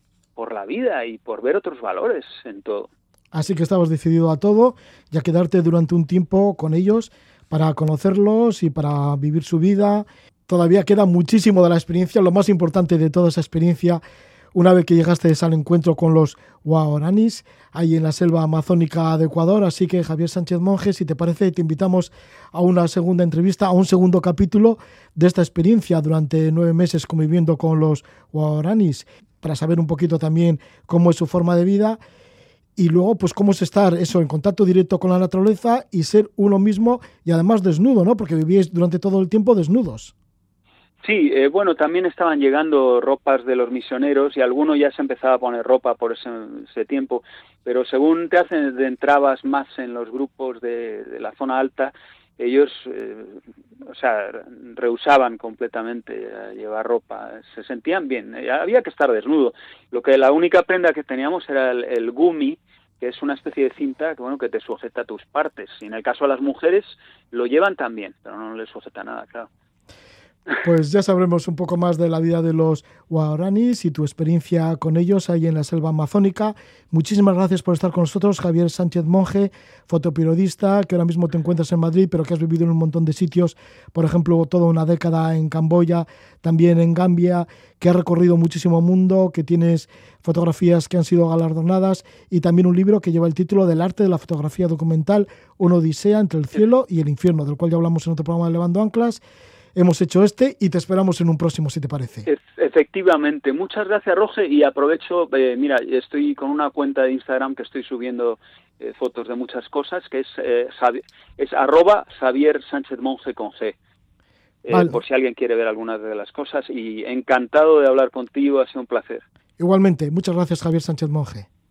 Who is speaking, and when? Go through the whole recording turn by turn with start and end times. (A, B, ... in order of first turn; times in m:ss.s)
0:00.4-0:02.9 A
0:03.3-0:14.0 B
0:14.5-0:32.0 B
0:32.8-0:40.1 B
0:41.0-1:09.5 A
1:10.6-1:39.2 B
1:39.7-1:42.3 B
1:42.3-1:53.7 A
1:54.6-1:59.2 A
1:54.7-1:55.0 B
1:59.6-2:01.5 B